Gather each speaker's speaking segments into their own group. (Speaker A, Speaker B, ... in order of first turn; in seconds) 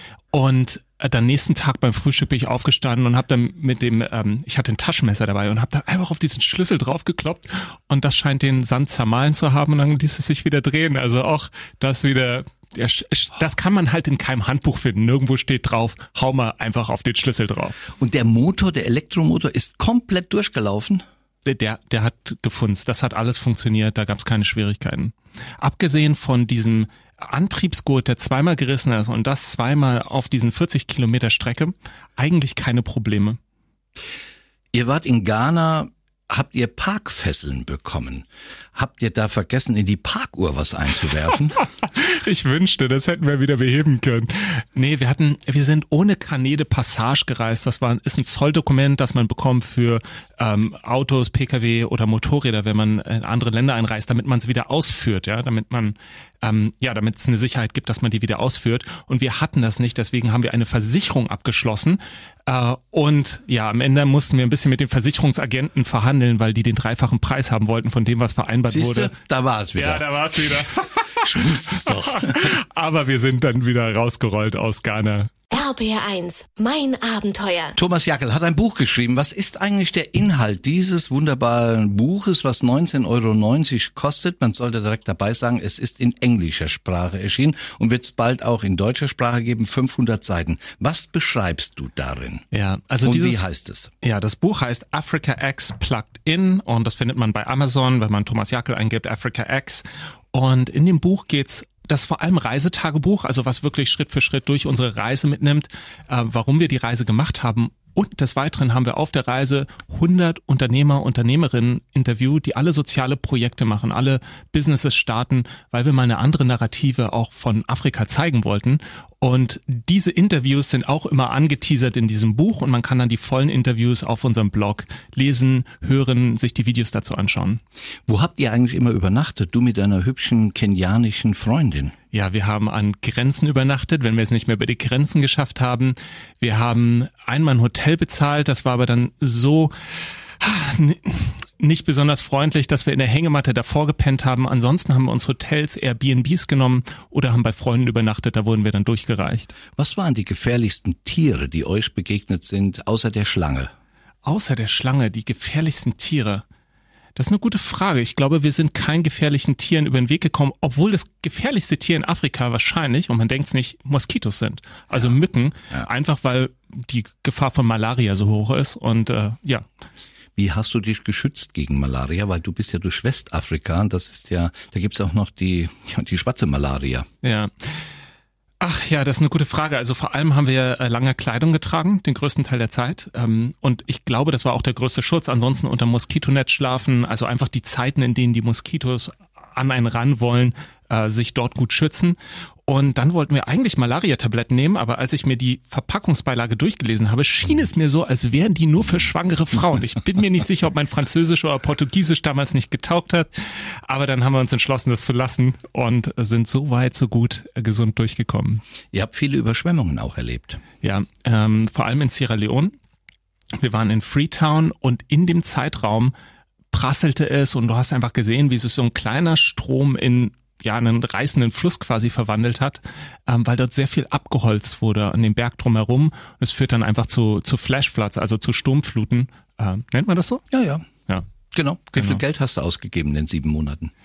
Speaker A: 0.3-17.8, 21.4-33.4, 41.6-69.1, 69.7-75.3, 92.5-93.4, 94.0-127.6, 132.1-139.7, 140.4-149.6, 154.2-156.4, 157.2-169.7, 177.2-177.7, 178.6-208.6, 210.8-212.7, 213.6-216.1, 216.7-230.4, 231.9-232.2
Speaker B: 18.0-21.0, 34.7-41.6, 68.6-70.1, 71.2-72.5, 77.8-92.4, 93.0-93.9, 128.1-131.9, 149.8-153.7, 170.4-177.1, 208.9-210.6, 230.5-230.8, 231.5-233.9
Speaker C: 75.5-77.8